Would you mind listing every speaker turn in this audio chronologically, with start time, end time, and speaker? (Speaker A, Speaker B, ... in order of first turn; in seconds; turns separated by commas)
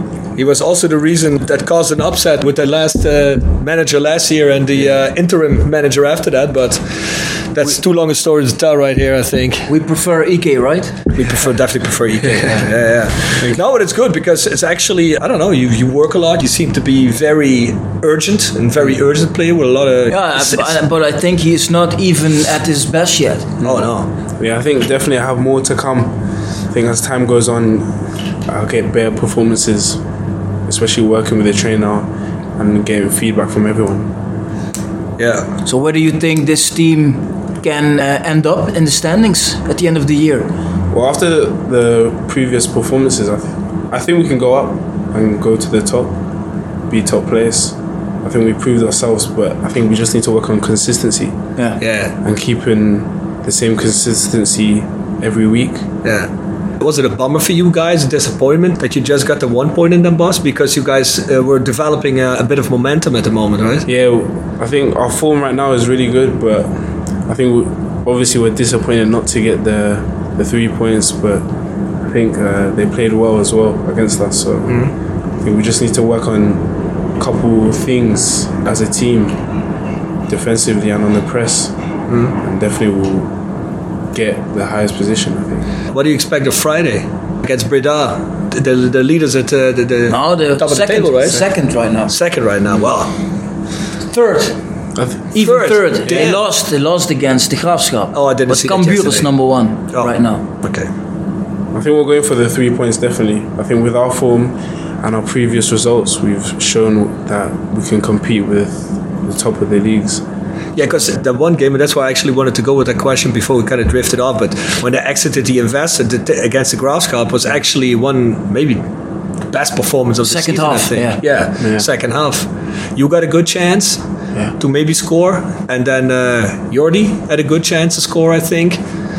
Speaker A: 0.3-9.7, Speaker B: 9.7-11.1, Speaker A: 11.1-20.8, Speaker B: 20.1-23.5, Speaker C: 23.6-23.9, Speaker A: 23.6-24.1, Speaker C: 24.4-30.0, Speaker C: 30.6-34.1, Speaker A: 35.2-35.5, Speaker B: 35.6-40.5, Speaker C: 40.9-46.2, Speaker C: 46.9-51.4, Speaker A: 51.8-52.1, Speaker C: 52.2-55.9, Speaker A: 56.0-63.9, Speaker C: 63.9-66.7, Speaker C: 67.2-71.5, Speaker C: 72.0-79.4, Speaker A: 74.7-74.9, Speaker C: 80.3-81.7, Speaker A: 82.1-82.3, Speaker C: 82.3-83.3, Speaker C: 84.1-85.7, Speaker A: 85.9-91.5, Speaker B: 90.1-92.1, Speaker A: 92.1-93.1, Speaker B: 94.1-94.6, Speaker C: 94.9-95.3, Speaker B: 95.3-100.4, Speaker A: 95.4-96.4, Speaker A: 98.1-99.3, Speaker A: 100.6-100.9, Speaker C: 101.7-110.2, Speaker A: 110.8-118.8, Speaker A: 119.5-124.0, Speaker B: 120.2-121.2, Speaker C: 121.6-121.9, Speaker A: 124.6-128.8